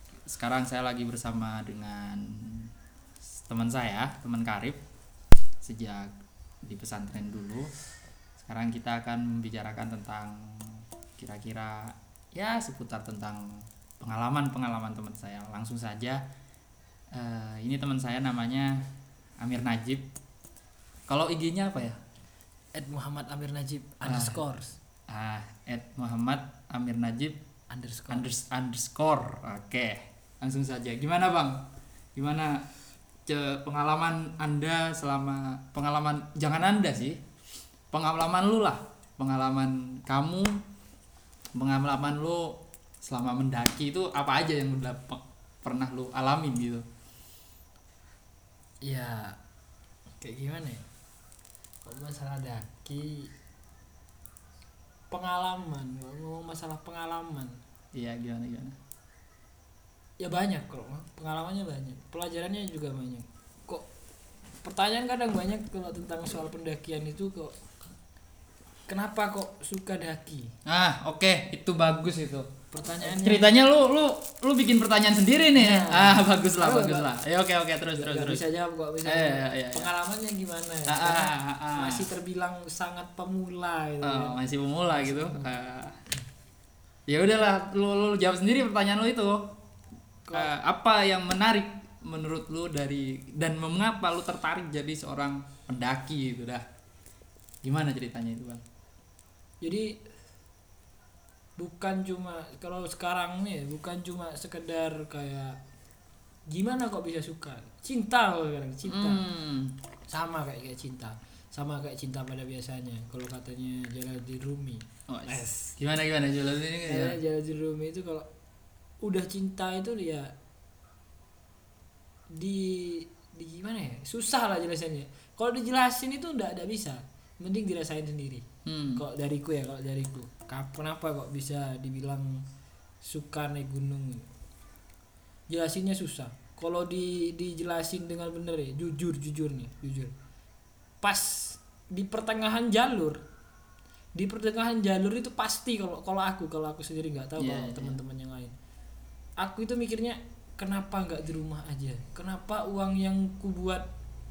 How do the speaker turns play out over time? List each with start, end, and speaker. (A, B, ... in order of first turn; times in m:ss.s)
0:00.3-0:02.7 A
0:03.5-0:04.8 A
0:05.6-0:07.7 A
0:08.4-0:16.2 A
0:17.1-0:18.8 A
0:19.4-0:20.0 A
0:21.1-0:22.0 A
0:22.7-0:24.8 B
0:24.0-0:24.4 A
0:25.1-0:27.4 A
0:27.7-0:28.3 B
0:28.1-0:31.6 A
0:32.2-0:32.6 A
0:33.2-0:37.2 A
0:37.9-0:40.6 A
0:41.5-0:46.8 A
0:48.8-0:49.4 B
0:50.2-0:50.8 B
0:51.8-0:53.3 B
0:55.1-0:57.6 B
0:57.9-0:58.8 A
1:00.2-1:03.8 B
1:04.6-1:07.5 B
1:08.9-1:10.5 B
1:10.6-1:12.5 A
1:12.7-1:13.5 B
1:13.0-1:18.4 A
1:15.5-1:17.1 B
1:18.0-1:24.4 B
1:19.0-1:19.9 A
1:20.8-1:22.1 A
1:24.0-1:26.0 A
1:24.9-1:25.6 B
1:27.1-1:29.5 A
1:30.3-1:30.5 B
1:30.3-1:36.6 A
1:37.6-1:38.6 A
1:39.6-1:40.0 B
1:41.6-1:45.6 B
1:46.5-1:49.2 B
1:48.9-1:49.8 A
1:50.1-1:55.7 B
1:55.1-1:57.2 A
1:56.8-1:58.3 B
1:59.0-2:00.3 B
2:02.3-2:12.4 B
2:08.6-2:09.0 A
2:13.0-2:14.2 B
2:15.5-2:20.1 B
2:21.0-2:23.2 B
2:24.1-2:28.5 B
2:27.4-2:28.0 A
2:29.4-2:33.8 B